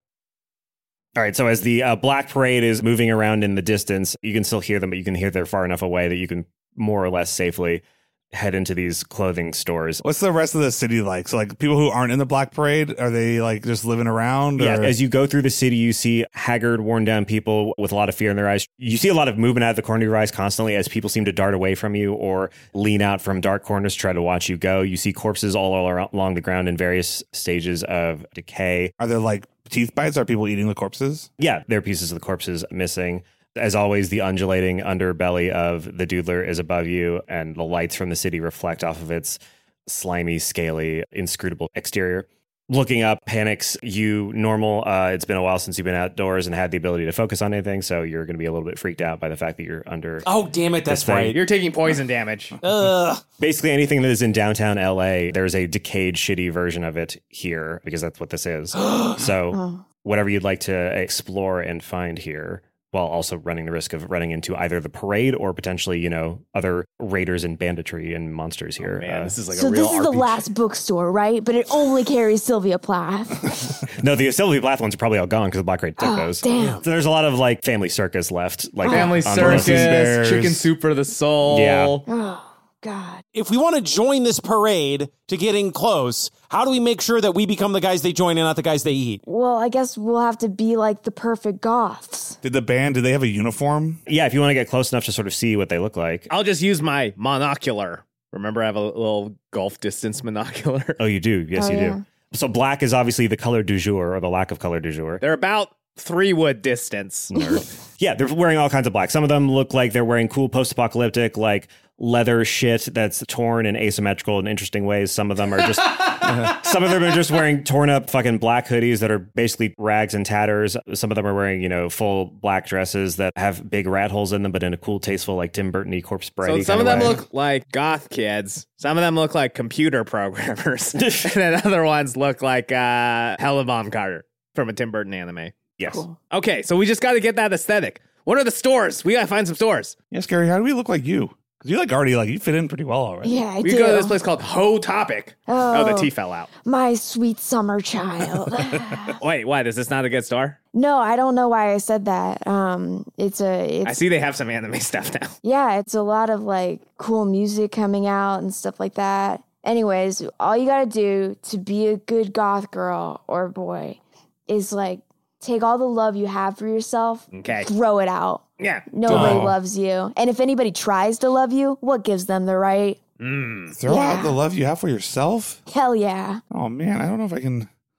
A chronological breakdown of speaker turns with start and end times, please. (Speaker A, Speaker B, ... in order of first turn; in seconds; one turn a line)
Speaker A: 1.1-10.0
Speaker B: 10.0-14.9
Speaker A: 14.6-28.9
Speaker B: 29.0-31.3
Speaker A: 31.4-50.3
Speaker C: 50.2-51.4
Speaker A: 50.9-51.4
Speaker D: 51.3-52.6
Speaker C: 52.6-53.2
Speaker A: 53.4-69.4
Speaker C: 58.8-59.2
Speaker E: 59.5-59.8
Speaker D: 68.8-70.5
Speaker E: 69.5-73.8
Speaker A: 74.0-80.0
Speaker E: 76.0-76.8
Speaker C: 76.5-76.8
Speaker E: 78.8-79.2
Speaker D: 78.8-82.0
Speaker B: 79.3-80.7
Speaker A: 81.4-82.0
Speaker E: 82.1-83.2
Speaker C: 83.3-89.2
Speaker E: 89.2-92.4
Speaker B: 92.4-94.0
Speaker A: 94.1-96.3
Speaker D: 96.3-101.0
Speaker A: 101.0-105.2
Speaker E: 101.5-102.0
Speaker D: 105.2-107.3
Speaker A: 107.3-127.2
Speaker D: 126.4-135.6
Speaker A: 131.0-131.3
Speaker A: 135.8-136.0
Speaker E: 135.9-136.2
Speaker D: 136.3-139.9
Speaker B: 140.1-143.4
Speaker E: 143.2-144.2
Speaker D: 143.6-146.5
Speaker E: 145.5-146.1
Speaker E: 146.6-149.2
Speaker D: 149.2-150.6
Speaker E: 150.7-154.0
Speaker D: 153.8-155.3
Speaker E: 155.4-173.0
Speaker D: 167.3-167.7
Speaker D: 168.6-169.4
Speaker B: 169.1-169.6
Speaker C: 169.1-169.4
Speaker D: 173.2-173.7
Speaker B: 173.7-175.6
Speaker E: 173.9-174.4
Speaker E: 175.7-176.4
Speaker B: 176.5-177.7